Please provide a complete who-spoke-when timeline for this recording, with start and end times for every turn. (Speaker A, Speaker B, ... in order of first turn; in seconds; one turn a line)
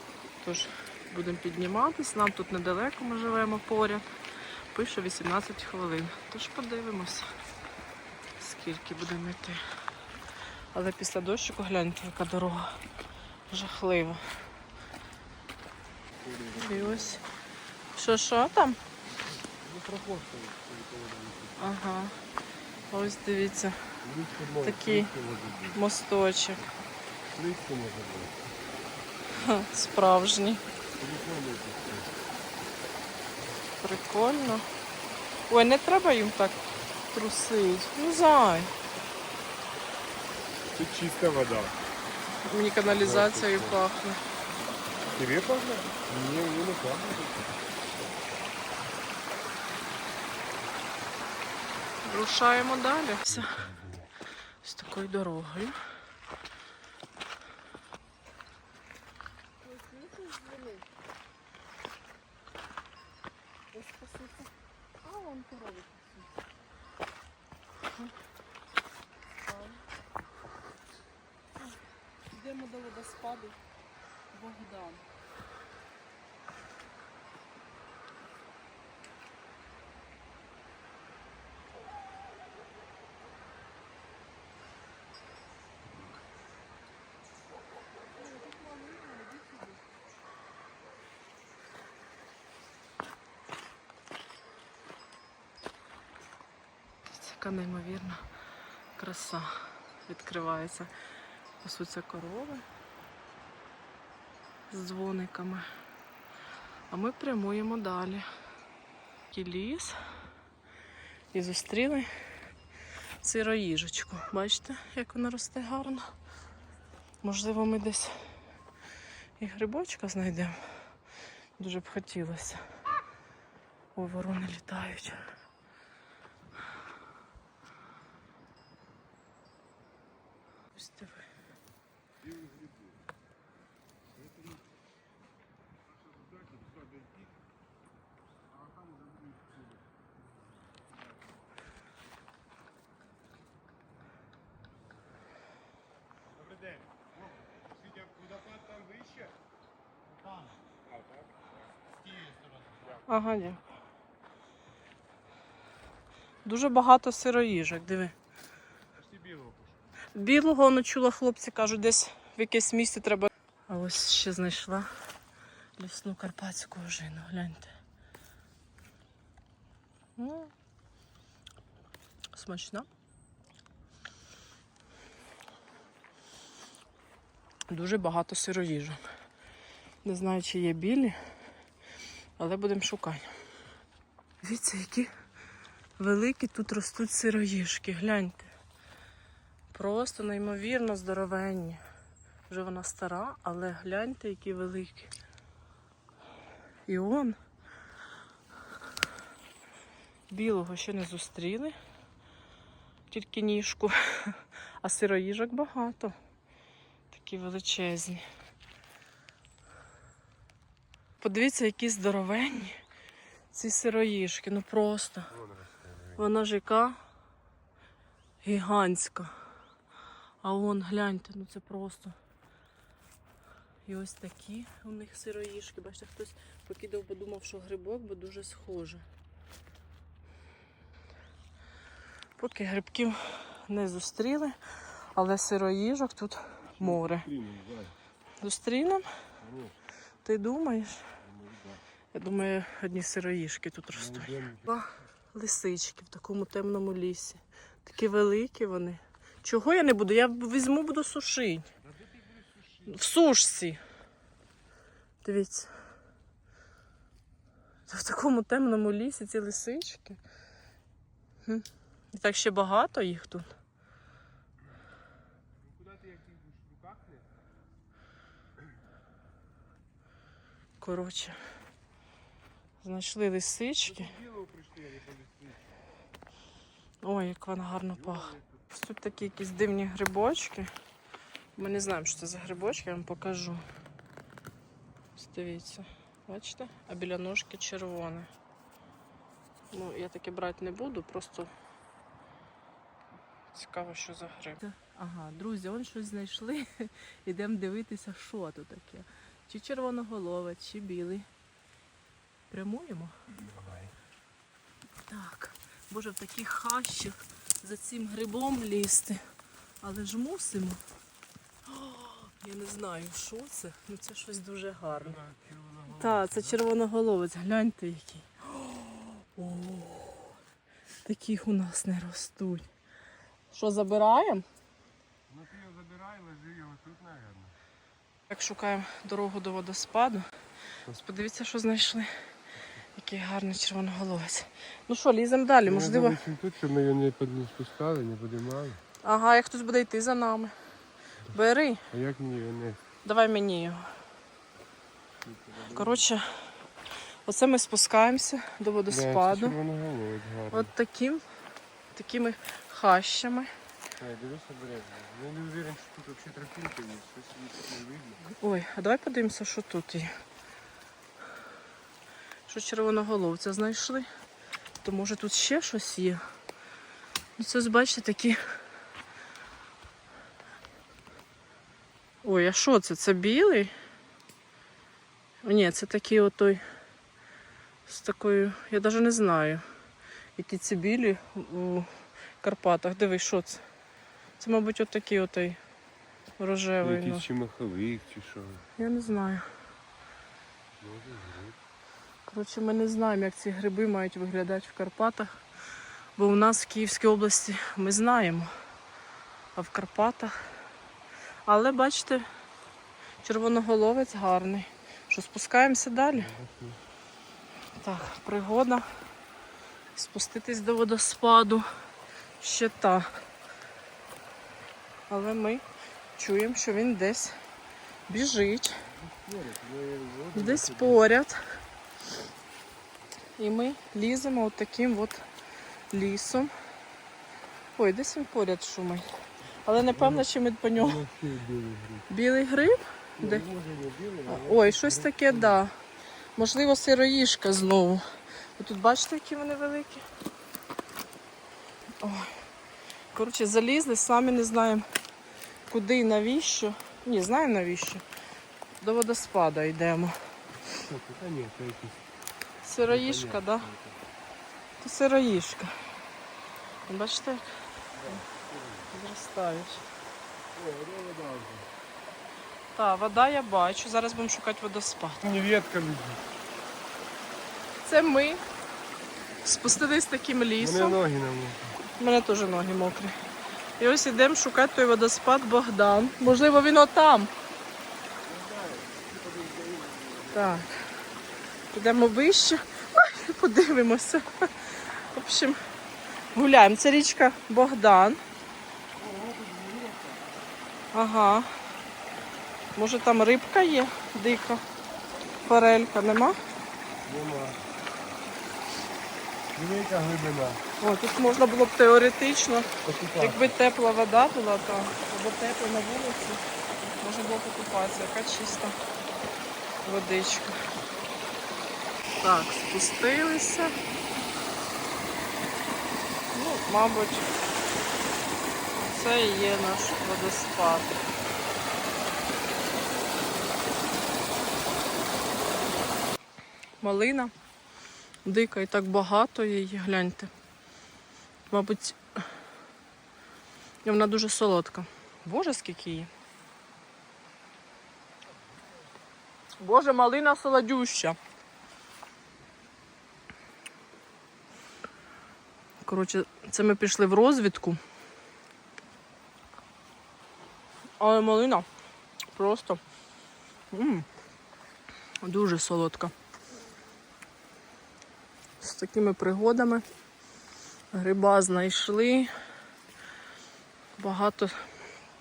Speaker A: 0.4-4.0
Speaker A: 4.7-7.3
Speaker A: 8.4-9.6
Speaker A: 10.7-12.8
Speaker A: 13.5-14.2
Speaker B: 16.2-17.2
Speaker A: 16.5-17.2
Speaker A: 17.9-18.8
Speaker B: 19.6-21.7
Speaker A: 21.6-22.2
Speaker A: 22.9-23.8
Speaker B: 24.0-25.8
Speaker A: 24.6-25.1
Speaker A: 25.7-26.6
Speaker B: 27.3-28.4
Speaker A: 29.3-30.6
Speaker B: 31.0-32.1
Speaker A: 33.8-34.6
Speaker A: 35.5-38.7
Speaker B: 40.7-41.8
Speaker A: 42.4-44.2
Speaker B: 42.9-43.8
Speaker B: 45.1-47.5
Speaker A: 52.0-53.6
Speaker B: 53.3-54.1
Speaker A: 54.6-55.8
Speaker A: 59.6-60.8
Speaker A: 63.7-64.5
Speaker A: 65.0-66.3
Speaker A: 69.5-69.8
Speaker A: 72.3-73.6
Speaker A: 74.3-75.0
Speaker A: 88.3-89.7
Speaker A: 97.1-98.2
Speaker A: 99.0-100.9
Speaker A: 101.6-102.6
Speaker A: 104.7-105.7
Speaker A: 106.9-108.2
Speaker A: 109.3-110.0
Speaker A: 111.3-112.1
Speaker A: 113.2-116.1
Speaker A: 117.2-118.2
Speaker A: 119.4-120.6
Speaker A: 121.6-122.6
Speaker A: 123.9-125.2
Speaker A: 130.7-131.2
Speaker B: 132.2-133.0
Speaker B: 134.2-134.6
Speaker B: 136.1-137.2
Speaker B: 138.6-139.8
Speaker B: 146.4-147.1
Speaker B: 147.8-149.3
Speaker B: 152.2-152.8
Speaker A: 153.0-153.6
Speaker A: 156.4-158.1
Speaker B: 159.0-159.7
Speaker A: 160.1-164.9
Speaker A: 165.8-167.7
Speaker A: 170.2-170.5
Speaker A: 172.3-172.9
Speaker A: 177.7-179.0
Speaker A: 180.0-181.2
Speaker A: 182.4-183.3
Speaker A: 184.4-185.1
Speaker A: 186.0-188.5
Speaker A: 189.7-191.8
Speaker A: 192.5-195.1
Speaker A: 196.9-197.4
Speaker A: 200.3-201.7
Speaker A: 203.1-206.2
Speaker A: 207.1-208.2
Speaker A: 211.2-212.8
Speaker A: 213.5-215.3
Speaker B: 215.3-216.2
Speaker A: 216.2-217.0
Speaker A: 218.4-219.3
Speaker A: 220.4-222.2
Speaker A: 223.8-229.0
Speaker A: 232.4-237.3
Speaker B: 236.8-237.9
Speaker A: 238.4-239.1
Speaker B: 239.4-239.8
Speaker A: 240.2-241.1
Speaker B: 241.2-241.8
Speaker A: 242.1-251.7
Speaker B: 243.9-244.7
Speaker B: 252.0-253.1
Speaker A: 252.8-253.8
Speaker A: 255.2-255.7
Speaker A: 257.9-260.2
Speaker A: 261.4-263.5
Speaker B: 265.6-267.2
Speaker A: 270.8-271.4
Speaker A: 272.8-274.1
Speaker B: 273.8-275.7
Speaker A: 277.0-280.7
Speaker B: 277.9-278.6
Speaker A: 281.6-283.6
Speaker A: 285.1-288.3
Speaker A: 289.7-291.5
Speaker A: 293.5-301.3
Speaker A: 302.5-303.2
Speaker B: 303.4-303.9
Speaker A: 305.1-309.2
Speaker A: 309.8-310.8
Speaker A: 311.6-315.2
Speaker B: 314.8-316.6
Speaker A: 315.9-320.4
Speaker A: 321.0-322.7
Speaker A: 323.5-324.4
Speaker B: 325.3-327.5
Speaker A: 328.3-330.3
Speaker A: 330.9-332.1
Speaker A: 332.9-336.2
Speaker B: 335.6-338.8
Speaker A: 339.0-340.5
Speaker A: 341.3-341.8
Speaker B: 341.9-342.8
Speaker A: 343.0-343.8
Speaker B: 345.2-346.0
Speaker A: 345.7-346.3
Speaker A: 347.2-349.5
Speaker B: 348.9-350.7
Speaker A: 350.5-351.2
Speaker A: 351.9-353.5
Speaker B: 354.0-358.3
Speaker A: 358.3-360.1
Speaker A: 362.5-364.1
Speaker A: 364.8-366.2
Speaker A: 367.4-368.4
Speaker A: 372.2-373.7
Speaker A: 375.4-376.6
Speaker A: 377.9-379.6
Speaker A: 380.4-381.9
Speaker A: 382.4-383.6
Speaker A: 384.4-385.6
Speaker A: 386.4-387.3
Speaker B: 386.8-388.7
Speaker A: 388.8-389.4
Speaker B: 390.8-391.6
Speaker A: 392.3-395.3
Speaker A: 396.2-398.5
Speaker A: 399.5-400.4
Speaker A: 401.4-402.2
Speaker A: 403.2-406.3
Speaker B: 406.1-406.8
Speaker A: 407.8-408.9
Speaker A: 409.9-411.6
Speaker A: 412.4-413.2
Speaker A: 415.1-415.6
Speaker A: 416.1-417.4
Speaker A: 418.1-418.8
Speaker B: 418.8-421.1
Speaker A: 420.3-421.4
Speaker A: 423.4-425.2
Speaker A: 425.9-426.5
Speaker A: 427.7-429.1
Speaker A: 429.6-431.0
Speaker B: 429.8-432.1
Speaker A: 432.1-433.4
Speaker B: 433.2-435.6
Speaker A: 434.3-435.7
Speaker A: 436.4-438.0
Speaker A: 438.6-440.0
Speaker A: 442.0-442.4
Speaker A: 443.1-444.9
Speaker A: 445.7-448.0
Speaker A: 448.8-450.2
Speaker B: 450.8-452.0
Speaker A: 452.6-453.7
Speaker B: 452.8-454.0
Speaker A: 454.8-455.8
Speaker A: 456.9-457.5
Speaker B: 457.9-458.9
Speaker A: 458.9-459.8
Speaker B: 460.5-461.7
Speaker A: 462.7-465.2
Speaker B: 465.2-466.2
Speaker A: 467.8-468.4
Speaker A: 469.4-471.0
Speaker B: 470.6-471.7
Speaker A: 472.0-473.1
Speaker A: 473.8-477.3
Speaker B: 478.2-480.6
Speaker A: 480.3-480.7
Speaker A: 481.7-485.6
Speaker A: 486.3-488.2
Speaker B: 489.0-490.3
Speaker A: 490.9-491.5
Speaker A: 492.7-494.6
Speaker A: 495.4-496.4
Speaker B: 497.0-497.6
Speaker B: 499.5-500.6
Speaker A: 500.8-506.4
Speaker B: 502.8-503.5
Speaker A: 507.0-508.8
Speaker A: 509.8-510.6
Speaker A: 512.2-513.7
Speaker A: 516.3-517.3
Speaker A: 518.8-521.0
Speaker A: 526.8-527.3
Speaker A: 528.2-530.3
Speaker A: 531.5-532.0
Speaker A: 533.8-536.1
Speaker A: 539.6-541.2
Speaker A: 545.8-547.8
Speaker A: 551.0-551.6
Speaker A: 552.3-552.8
Speaker A: 553.7-554.1
Speaker A: 555.2-556.1
Speaker A: 558.6-559.8
Speaker A: 560.9-562.3
Speaker A: 564.0-564.6